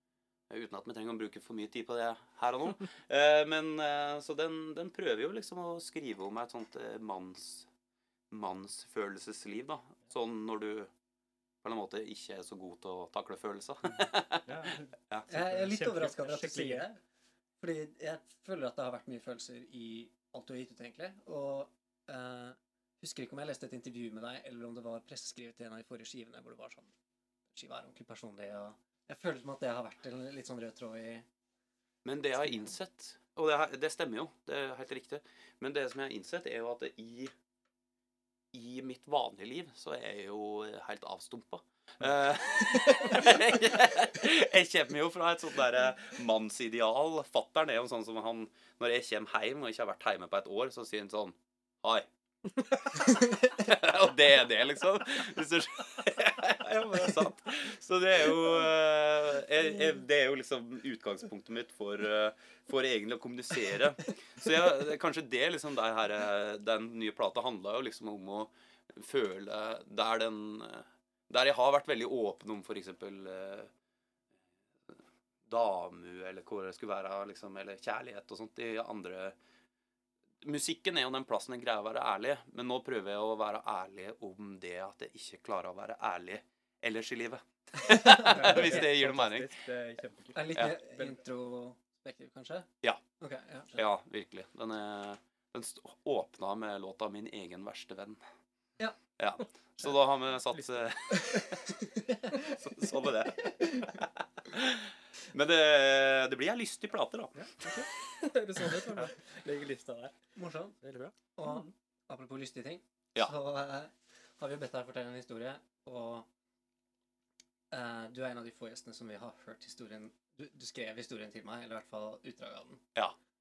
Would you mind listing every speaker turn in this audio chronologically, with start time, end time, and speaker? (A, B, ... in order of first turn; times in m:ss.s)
0:00.5-0:07.7 A
0:08.3-0:10.9 A
0:11.6-0:15.3 A
0:14.4-0:16.9 B
0:15.3-0:17.0 C
0:17.6-0:26.9 C
0:27.5-0:31.3 C
0:32.0-0:37.3 A
0:38.5-1:13.7 A
1:14.9-1:19.4 A
1:20.4-1:29.5 A
1:27.9-1:28.8 C
1:28.1-1:31.2 B
1:30.3-1:33.8 C
1:33.8-1:38.2 A
1:39.2-1:47.5 A
1:47.4-1:50.2 B
1:50.4-1:50.8 C
1:50.8-1:51.7 B
1:51.4-1:56.3 C
1:57.7-2:02.8 C